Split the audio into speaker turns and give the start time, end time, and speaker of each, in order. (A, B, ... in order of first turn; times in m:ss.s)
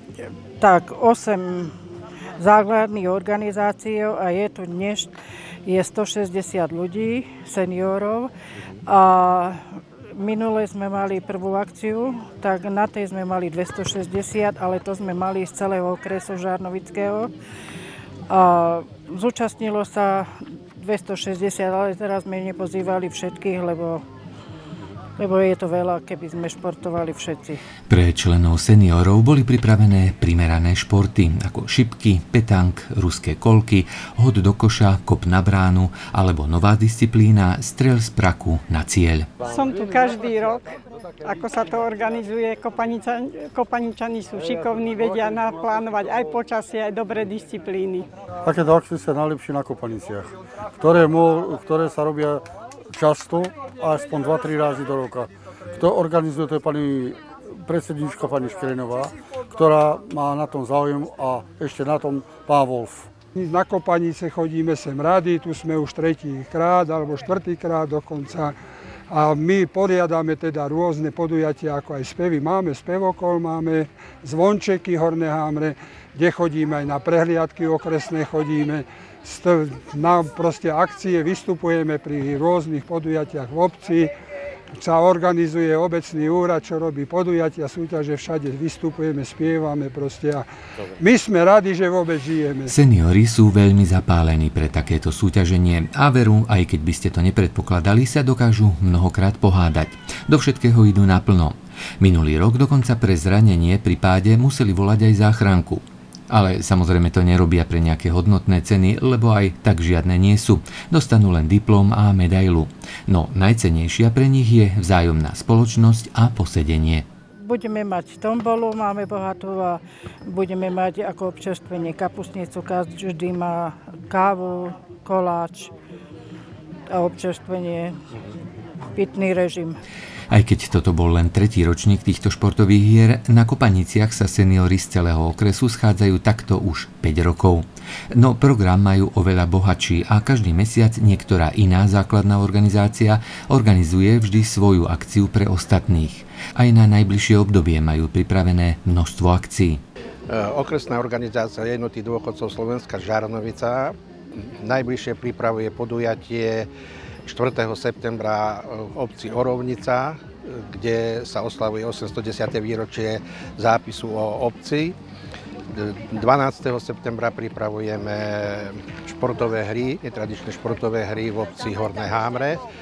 0:00.6-0:01.7 A
0:02.4-0:05.1 A
0:05.6-0:08.3 A
0:08.9-0:09.6 A
0:10.1-0:17.3 A
0:18.3-0:24.0 A
0:25.2-0:27.6 A
0:27.9-0:39.3 B
0:39.4-0:48.1 C
0:48.4-1:03.1 D
1:03.4-1:08.6 E
1:09.1-1:24.1 E
1:24.8-1:30.5 E
1:31.0-1:32.8 E
1:32.7-1:57.0 B
1:57.4-2:05.7 A
2:06.9-2:08.0 A
2:09.0-2:09.8 A
2:10.3-2:29.8 B
2:30.3-2:36.7 F
2:37.3-2:45.0 F
2:45.7-2:52.6 F